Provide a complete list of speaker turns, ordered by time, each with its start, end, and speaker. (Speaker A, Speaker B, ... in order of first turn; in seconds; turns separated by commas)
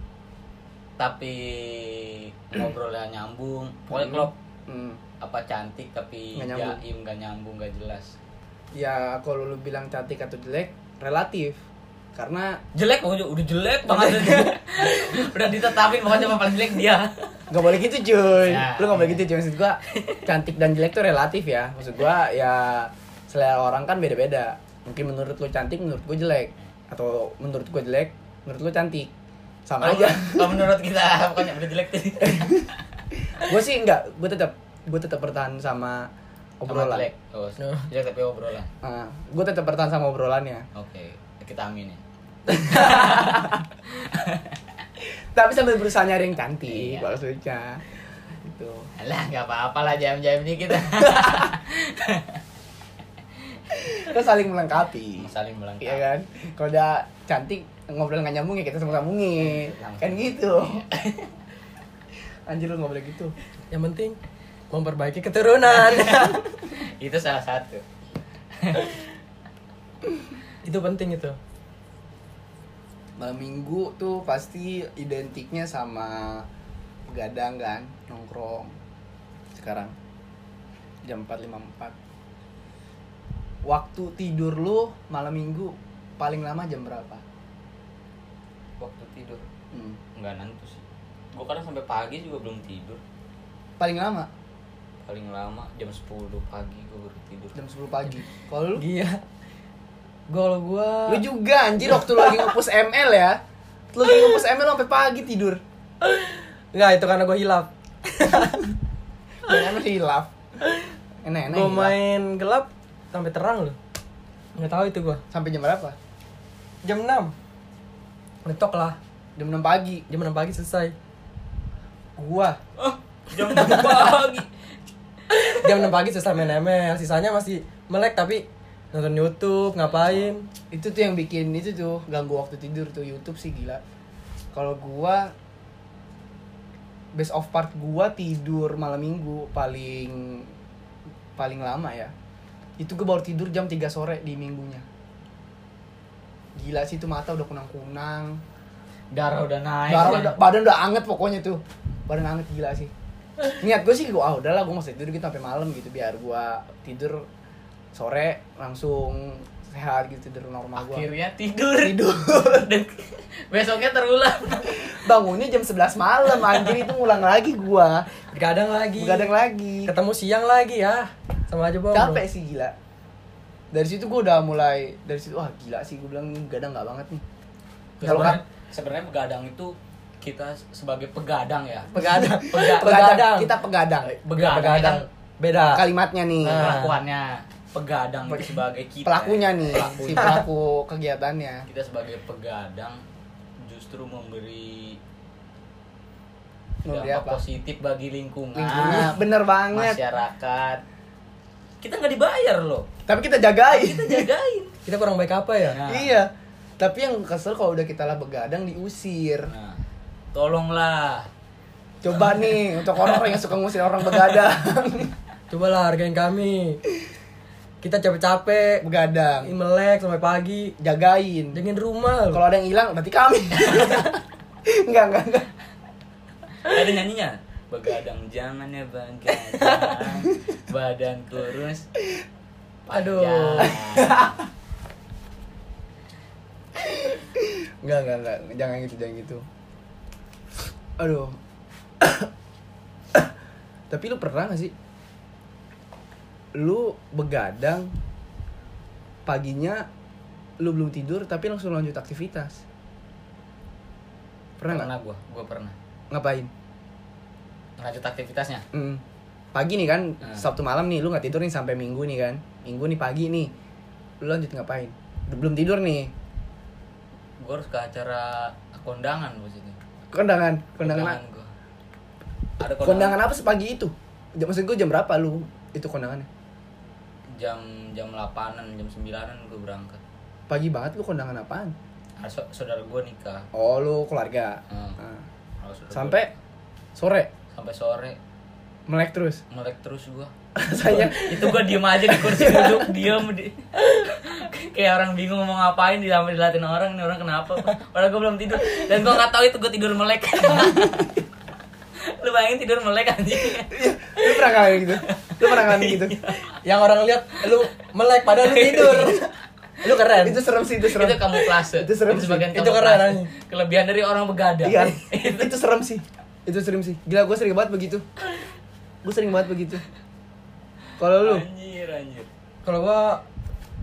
Speaker A: 1.0-4.3, Speaker B: 3.9-5.0, Speaker A: 5.2-8.2, Speaker B: 6.3-6.8, Speaker B: 8.7-11.6, Speaker B: 12.1-12.6, Speaker A: 12.7-17.5, Speaker B: 17.5-29.1, Speaker A: 18.4-19.3, Speaker A: 19.9-20.2, Speaker B: 29.6-30.6, Speaker A: 29.8-32.7, Speaker B: 32.2-37.1, Speaker A: 36.7-38.7, Speaker C: 37.6-37.9, Speaker B: 38.8-40.6, Speaker A: 40.7-44.5, Speaker B: 42.5-43.6, Speaker B: 45.3-48.9, Speaker A: 46.7-47.1, Speaker A: 49.0-52.4, Speaker B: 51.0-51.5, Speaker B: 53.7-60.9, Speaker A: 55.2-56.0, Speaker A: 59.4-61.3, Speaker B: 62.5-63.3, Speaker C: 63.7-64.2, Speaker C: 64.7-66.4, Speaker A: 65.8-67.8, Speaker A: 68.6-69.0, Speaker C: 70.6-71.4, Speaker B: 73.2-76.5, Speaker B: 77.1-78.7, Speaker B: 79.5-79.9, Speaker B: 81.0-81.9, Speaker B: 83.7-87.2, Speaker A: 88.8-89.4, Speaker B: 89.7-90.0, Speaker A: 90.1-93.0, Speaker B: 93.8-94.3, Speaker A: 95.0-97.5, Speaker B: 97.5-98.8, Speaker C: 98.8-99.2, Speaker C: 100.3-101.2, Speaker B: 101.1-103.4, Speaker C: 101.8-102.5, Speaker B: 103.9-105.6, Speaker C: 106.0-108.7, Speaker B: 109.4-110.3, Speaker C: 110.6-110.9, Speaker B: 111.2-112.0, Speaker C: 111.5-113.8, Speaker C: 114.5-115.2, Speaker B: 115.3-116.0, Speaker C: 116.8-117.3, Speaker C: 118.4-119.0, Speaker B: 119.4-120.0, Speaker C: 120.1-120.9, Speaker B: 122.2-122.6, Speaker A: 122.8-124.5, Speaker C: 123.5-123.9, Speaker B: 123.6-124.0, Speaker A: 125.3-125.7, Speaker C: 125.4-130.4, Speaker A: 129.9-130.3, Speaker B: 130.7-133.8, Speaker B: 134.5-135.3, Speaker B: 137.1-140.5, Speaker B: 141.3-142.1, Speaker B: 142.8-144.8, Speaker B: 146.6-148.4, Speaker A: 149.1-150.4, Speaker B: 149.9-152.9, Speaker B: 153.5-157.3, Speaker B: 157.9-161.1, Speaker A: 160.8-164.9, Speaker B: 161.8-162.7, Speaker B: 164.7-168.1, Speaker C: 168.3-169.3, Speaker B: 168.9-169.9, Speaker C: 169.8-172.2, Speaker B: 171.9-172.7, Speaker B: 173.7-177.2, Speaker C: 178.0-178.4, Speaker A: 178.0-182.9, Speaker B: 178.0-178.4, Speaker C: 181.9-183.5, Speaker B: 182.5-184.8, Speaker A: 184.2-185.0, Speaker C: 184.3-185.8, Speaker B: 185.7-186.8, Speaker C: 186.4-187.0, Speaker A: 186.5-190.4, Speaker B: 189.0-191.7, Speaker A: 191.7-193.0, Speaker A: 193.6-195.0, Speaker B: 196.8-197.4, Speaker A: 196.9-200.8, Speaker B: 198.6-200.0, Speaker A: 201.8-202.9, Speaker B: 203.1-204.3, Speaker A: 203.7-204.7, Speaker C: 204.8-205.8, Speaker A: 205.7-206.1, Speaker B: 205.8-209.5, Speaker A: 209.4-209.8, Speaker A: 210.3-211.3, Speaker B: 212.0-215.1, Speaker C: 215.5-216.8, Speaker C: 217.8-218.8, Speaker B: 218.8-219.5, Speaker C: 219.4-220.7, Speaker B: 220.8-221.6, Speaker C: 221.5-222.4, Speaker B: 222.3-225.5, Speaker A: 226.6-231.8, Speaker A: 232.8-234.3, Speaker C: 232.9-233.8, Speaker B: 233.6-234.4, Speaker B: 236.8-239.4, Speaker B: 241.0-241.4, Speaker B: 242.0-242.3, Speaker B: 243.9-244.7, Speaker B: 246.5-247.9, Speaker B: 249.2-249.9, Speaker B: 250.6-252.6, Speaker B: 254.6-254.9, Speaker A: 254.7-255.7, Speaker B: 256.1-256.5, Speaker A: 257.8-258.6, Speaker B: 258.7-259.0, Speaker B: 259.5-263.5, Speaker A: 260.2-260.5, Speaker B: 264.2-266.1, Speaker A: 267.4-269.8, Speaker B: 270.1-271.2, Speaker A: 270.8-271.5, Speaker A: 272.6-273.2, Speaker B: 272.8-276.3, Speaker A: 277.3-280.0, Speaker B: 280.5-281.7, Speaker A: 282.2-283.5, Speaker B: 283.5-285.2, Speaker A: 284.7-285.0, Speaker A: 285.6-286.3, Speaker B: 285.9-286.3, Speaker B: 286.9-287.3, Speaker A: 287.5-288.2, Speaker B: 288.9-289.4, Speaker A: 289.5-290.3, Speaker B: 290.6-291.6, Speaker A: 290.9-301.1, Speaker B: 292.1-292.9, Speaker B: 300.5-301.1, Speaker A: 302.0-303.7, Speaker B: 303.6-306.2, Speaker A: 305.0-306.5, Speaker C: 306.5-309.3, Speaker A: 308.4-309.2, Speaker C: 309.8-310.4, Speaker B: 310.2-312.5, Speaker A: 310.9-315.5, Speaker C: 312.5-313.3, Speaker B: 314.6-318.0, Speaker B: 319.0-319.8, Speaker B: 321.0-321.4, Speaker A: 321.1-322.3, Speaker C: 322.6-323.2